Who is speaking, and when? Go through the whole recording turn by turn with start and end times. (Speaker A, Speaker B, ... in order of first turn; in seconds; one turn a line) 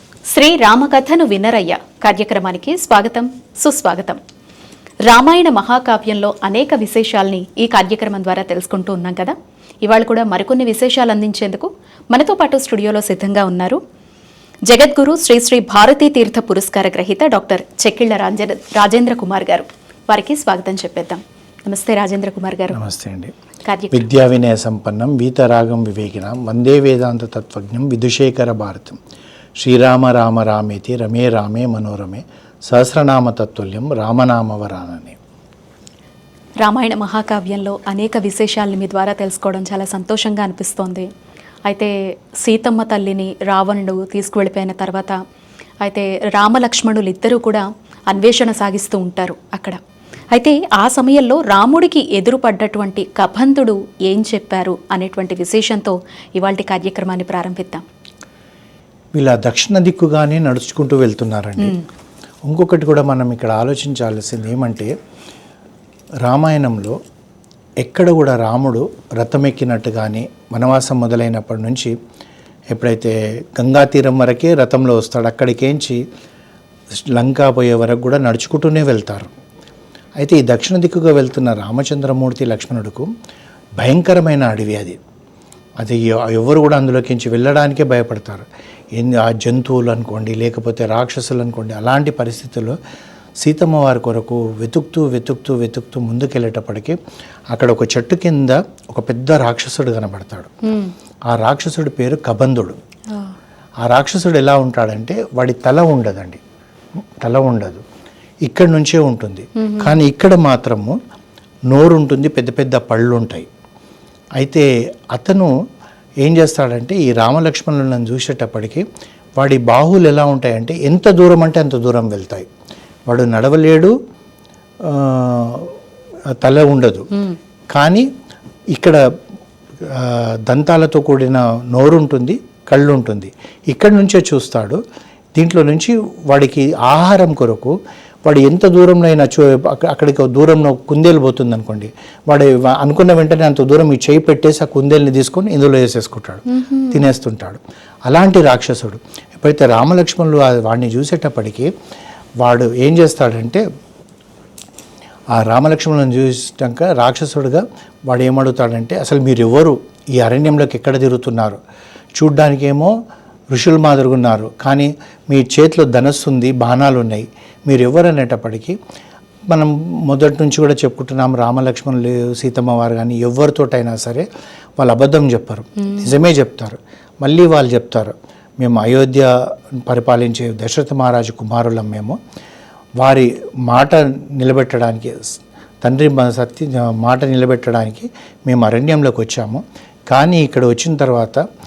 Speaker A: 0.3-4.2
Speaker A: 5.0-13.8
Speaker A: 14.7-22.8
Speaker B: 22.7-23.3
Speaker A: 23.6-24.0
Speaker B: 23.9-29.0
Speaker B: 29.6-35.2
Speaker A: 36.6-41.1
Speaker A: 41.7-45.2
Speaker A: 45.8-49.8
Speaker A: 50.3-57.8
Speaker B: 59.1-61.8
Speaker B: 62.5-64.9
Speaker B: 66.2-67.0
Speaker B: 67.8-71.9
Speaker B: 72.7-76.0
Speaker B: 77.1-79.3
Speaker B: 80.2-83.1
Speaker B: 83.8-85.0
Speaker B: 85.8-92.8
Speaker B: 93.4-97.0
Speaker B: 97.5-100.5
Speaker A: 100.6-100.9
Speaker B: 101.3-102.8
Speaker A: 103.1-103.3
Speaker B: 103.8-106.4
Speaker B: 107.2-107.8
Speaker B: 108.5-111.0
Speaker A: 109.5-110.0
Speaker B: 111.7-113.5
Speaker B: 114.4-115.5
Speaker B: 116.2-118.8
Speaker B: 119.4-122.5
Speaker B: 123.1-123.9
Speaker B: 124.8-125.7
Speaker B: 126.4-127.1
Speaker B: 127.7-128.1
Speaker B: 128.7-129.0
Speaker B: 129.8-134.8
Speaker B: 135.3-151.7
Speaker A: 146.5-147.0
Speaker B: 152.4-153.6
Speaker B: 155.3-161.6
Speaker B: 162.2-162.9
Speaker B: 163.5-168.7
Speaker B: 169.5-174.2
Speaker B: 174.8-179.3
Speaker B: 179.8-182.2
Speaker B: 183.0-191.4